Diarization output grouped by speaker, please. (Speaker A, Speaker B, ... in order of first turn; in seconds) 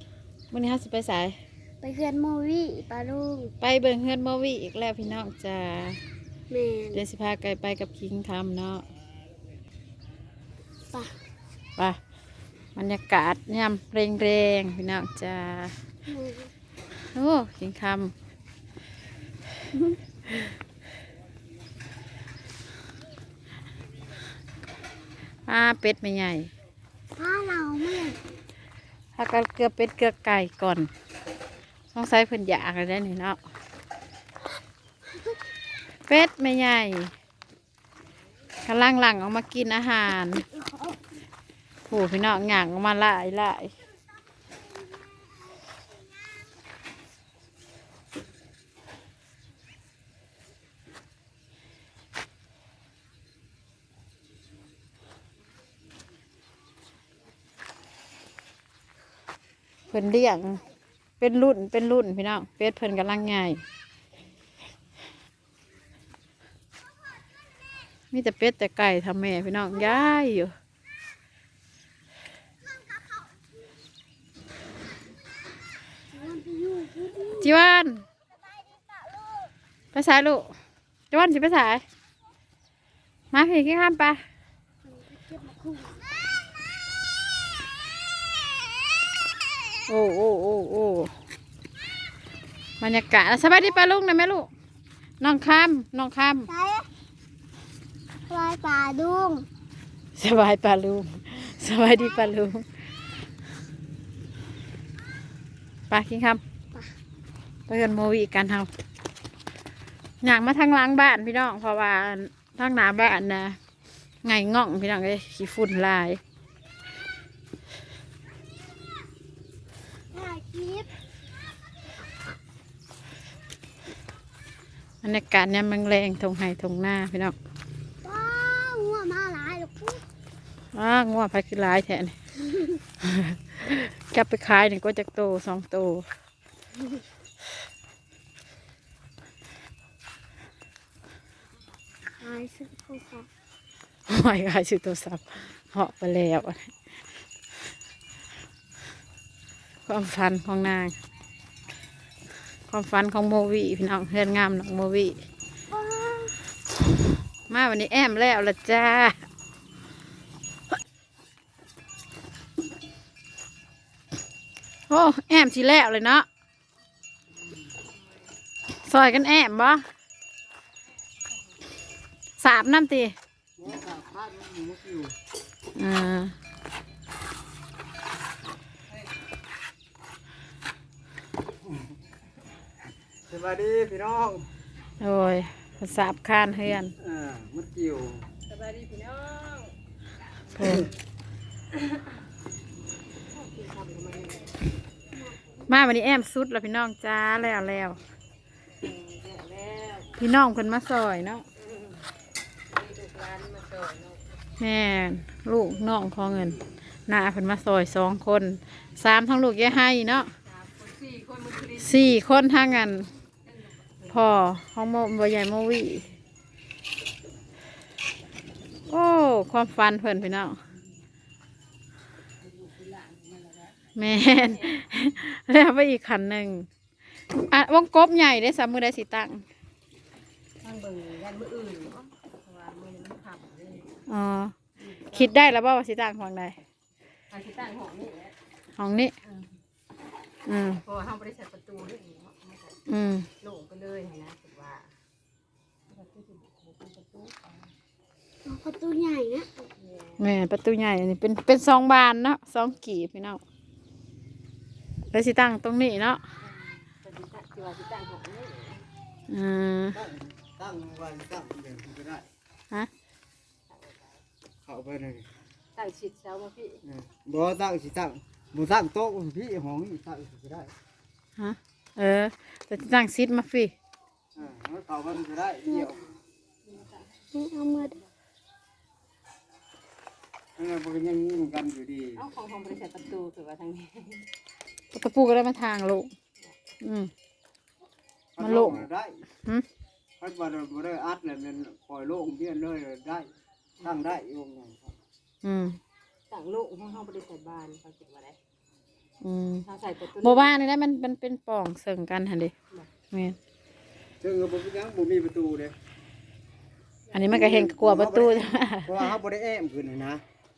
Speaker A: 0.5-1.4, 3.6-6.0, 6.9-8.8, 12.8-15.7, 17.1-18.1, 25.5-26.5, 29.1-30.9, 31.9-33.4, 36.1-37.1, 38.6-40.4, 41.9-43.7, 59.9-60.6, 61.2-63.6, 68.1-70.5, 77.4-78.0, 79.9-80.5, 81.1-81.8, 83.3-84.2, 89.9-91.1, 92.8-94.5, 95.2-96.5, 100.2-102.6, 105.9-106.4, 107.7-108.7, 110.2-113.6, 114.2-116.2, 125.0-127.3, 130.7-132.1, 133.0-136.1, 144.1-146.7, 149.9-150.9, 152.7-155.2, 157.5-159.2, 164.9-166.2, 168.8-169.8, 172.4-173.1, 175.7-176.3, 185.0-186.9, 190.5-190.9, 195.7-198.0, 200.2-201.4, 204.6-210.3, 211.8-213.1, 214.1-216.1, 218.9-220.6, 223.9-226.7, 227.4-229.4, 234.1-234.5, 235.1-236.6, 238.8-239.1, 240.4-240.8, 242.9-243.3, 250.2-253.4, 255.1-256.2, 259.3-260.0, 271.4-273.7, 284.9-286.1, 286.8-287.1, 288.4-288.9, 295.4-295.8, 299.2-299.6, 300.2-302.5, 303.1-303.4, 307.1-309.1
Speaker B: 1.8-3.5, 6.5-7.0, 10.9-11.2, 16.1-16.5, 27.2-28.2, 40.3-41.0, 76.1-77.5, 84.8-86.1, 96.5-96.8, 98.3-99.4, 120.1-120.9, 128.0-130.0, 132.5-132.8, 142.2-143.3, 155.7-156.4, 248.4-249.5, 277.3-277.9
Speaker C: 173.6-175.1, 183.3-184.4, 187.0-188.2, 259.9-262.3, 264.6-265.3, 266.8-270.7, 274.3-276.0, 280.6-282.2, 288.4-289.2, 290.2-293.3, 293.8-294.9, 304.2-305.7, 307.3-310.2
Speaker D: 188.4-189.8, 190.5-190.9, 193.3-194.5, 198.8-200.1, 201.6-202.1, 202.7-204.3, 210.0-214.4, 222.4-224.8, 230.6-233.9, 234.8-235.3, 237.3-238.3, 239.2-239.5, 240.8-242.8, 243.4-244.9, 245.9-247.7, 249.7-250.2, 256.4-258.9, 263.7-264.2, 265.7-266.8, 275.9-277.3, 282.2-284.3, 296.3-298.4, 299.6-300.6